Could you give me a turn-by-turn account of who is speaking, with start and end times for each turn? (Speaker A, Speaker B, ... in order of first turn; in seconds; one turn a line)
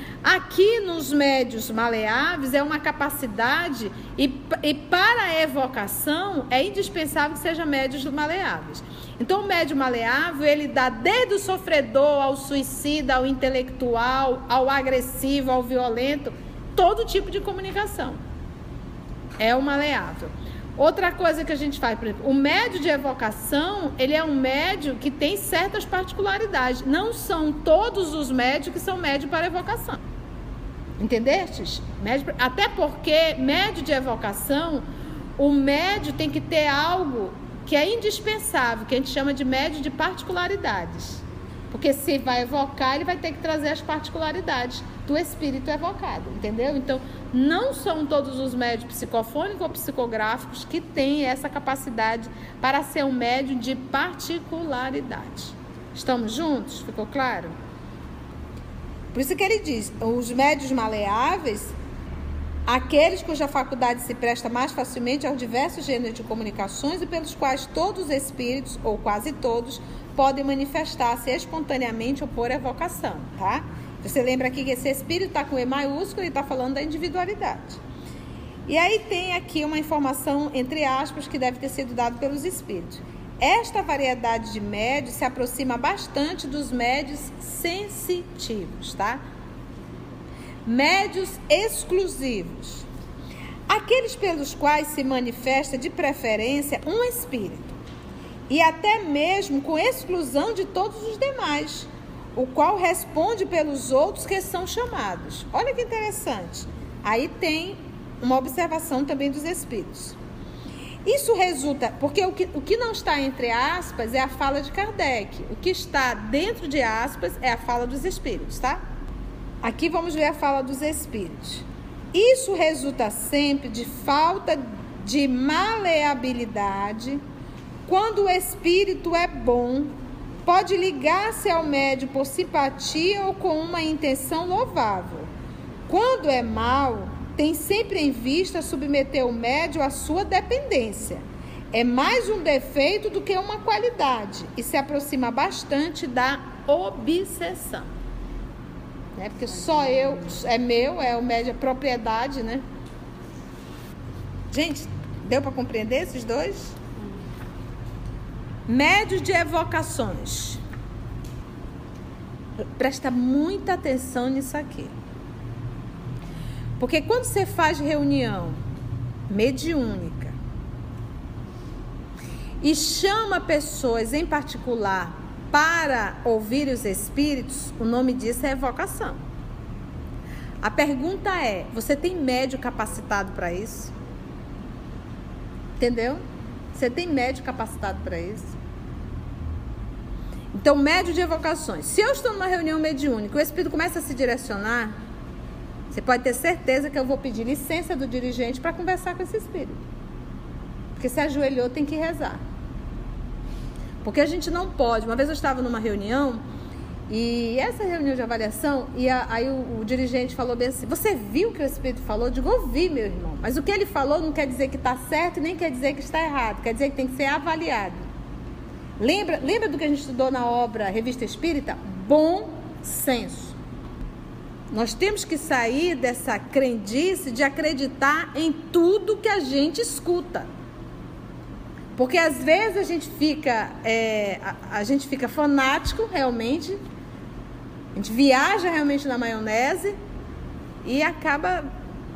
Speaker A: 0.2-18.2
Speaker A: 19.4-30.0
Speaker A: 31.0-34.9
Speaker A: 35.4-57.5
Speaker A: 59.1-61.7
Speaker A: 62.7-77.8
Speaker A: 78.7-89.2
Speaker A: 90.7-92.9
Speaker A: 93.7-97.8
Speaker A: 98.5-110.2
Speaker A: 111.0-118.8
Speaker A: 119.6-127.2
Speaker A: 127.9-129.9
Speaker A: 130.5-135.3
Speaker A: 135.9-147.9
Speaker A: 149.2-152.6
Speaker A: 154.5-156.8
Speaker A: 158.7-160.6
Speaker A: 162.8-164.9
Speaker A: 166.8-168.6
Speaker A: 169.3-170.3
Speaker A: 172.6-179.2
Speaker A: 180.6-183.9
Speaker A: 185.8-186.2
Speaker A: 186.7-188.5
Speaker A: 190.5-194.9
Speaker A: 195.9-199.8
Speaker A: 201.0-202.4
Speaker A: 204.0-206.4
Speaker A: 207.1-218.0
Speaker A: 219.0-223.6
Speaker A: 224.7-230.5
Speaker A: 232.0-236.8
Speaker A: 237.9-240.0
Speaker A: 240.8-241.7